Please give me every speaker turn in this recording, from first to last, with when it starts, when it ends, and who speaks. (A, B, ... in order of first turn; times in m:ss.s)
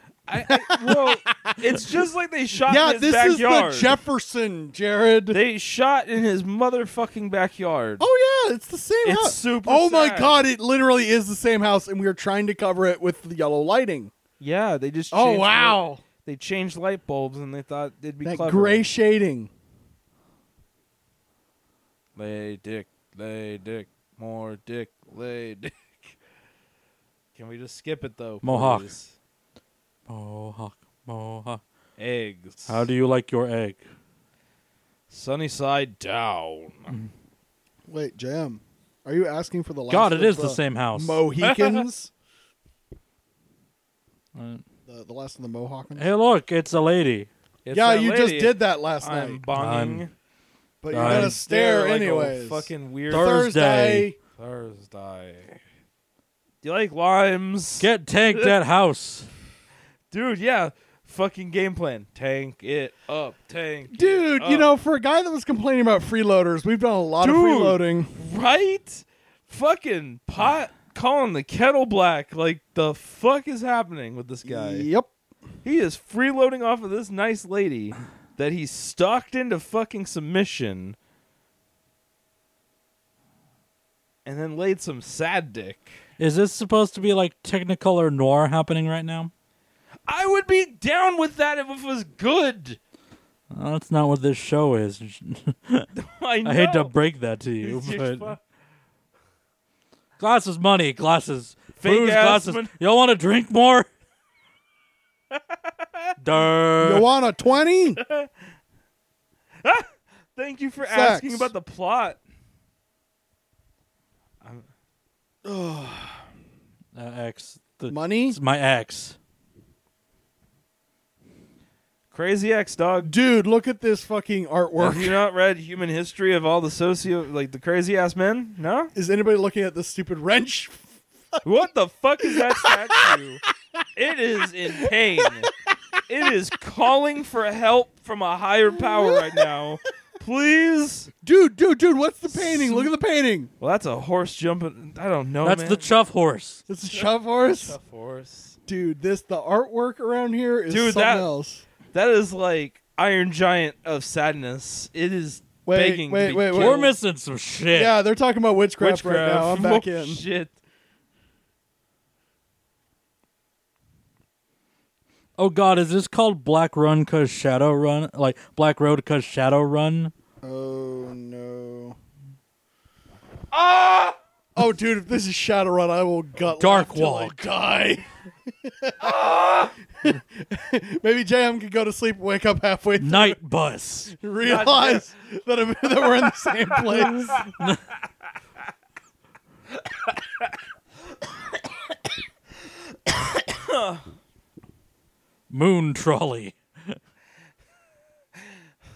0:00.3-0:04.0 A
0:00.4-0:02.0 B
0:02.6-0:05.4 B
0:05.3-0:08.1 A
0:08.0-0:14.1 B
0:09.0-0:10.4 A
0:14.4-0:18.8 A
0:15.1-0:16.0 B
0:18.2-0:19.5 B
0:22.2-0:26.1 A
0:27.4-0:29.1 A
0:28.4-0:28.9 C
0:30.1-0:31.6 C
0:32.0-0:32.9 A
0:32.7-0:33.8 C
0:35.1-0:36.9 A
0:37.9-0:42.1 B
0:39.9-0:41.2 C
0:41.4-0:41.8 A
0:44.3-0:44.6 C
0:44.9-0:46.1 B
0:46.0-0:47.3 C
0:47.6-0:50.1 A
0:47.7-0:49.4 B
0:49.5-0:50.0 C
0:50.8-0:54.2 B
0:50.9-0:51.4 C
0:50.9-0:53.4 A
0:53.1-0:54.1 C
0:54.4-0:55.6 A
0:56.6-0:58.5 A
0:57.8-0:59.3 C
1:00.1-1:04.7 A
1:03.9-1:08.1 B
1:07.2-1:14.9 A
1:14.4-1:15.1 B
1:15.6-1:21.0 A
1:24.2-1:25.9 A
1:26.2-1:29.3 C
1:30.1-1:32.8 A
1:33.5-1:35.9 C
1:35.9-1:36.9 A
1:36.4-1:38.3 C
1:37.6-1:38.4 A
1:40.2-1:43.9 C
1:41.8-1:42.7 A
1:45.3-1:46.1 A
1:46.2-1:47.1 C
1:46.8-1:48.0 B
1:48.0-1:48.3 A
1:49.6-1:52.2 A
1:50.8-1:51.5 B
1:54.4-1:54.7 A
1:55.4-1:56.2 B
1:56.9-1:59.2 C
1:57.9-1:58.4 B
2:02.1-2:03.1 A
2:03.0-2:05.2 B
2:04.8-2:08.9 A
2:08.9-2:11.4 B
2:11.4-2:13.4 A
2:12.2-2:13.2 B
2:14.0-2:15.5 A
2:14.7-2:15.5 B
2:16.1-2:21.1 A
2:18.8-2:19.5 B
2:21.2-2:23.5 B
2:22.3-2:22.9 A
2:23.6-2:25.9 A
2:25.4-2:26.6 C
2:26.7-2:27.8 B
2:26.9-2:28.6 A
2:28.7-2:31.6 B
2:30.7-2:31.3 A
2:31.9-2:36.9 A
2:35.6-2:36.9 B
2:36.5-2:37.9 C
2:37.7-2:40.2 B
2:38.8-2:40.6 A
2:45.4-2:50.1 C
2:50.4-2:52.0 B
2:53.5-2:54.2 A
2:54.5-3:03.4 B
2:56.6-2:57.4 C
2:59.0-2:59.8 A
3:03.0-3:04.1 C
3:04.1-3:07.4 B
3:04.4-3:05.1 A
3:06.1-3:07.5 A
3:10.0-3:10.5 A
3:13.1-3:14.0 A
3:15.5-3:16.9 C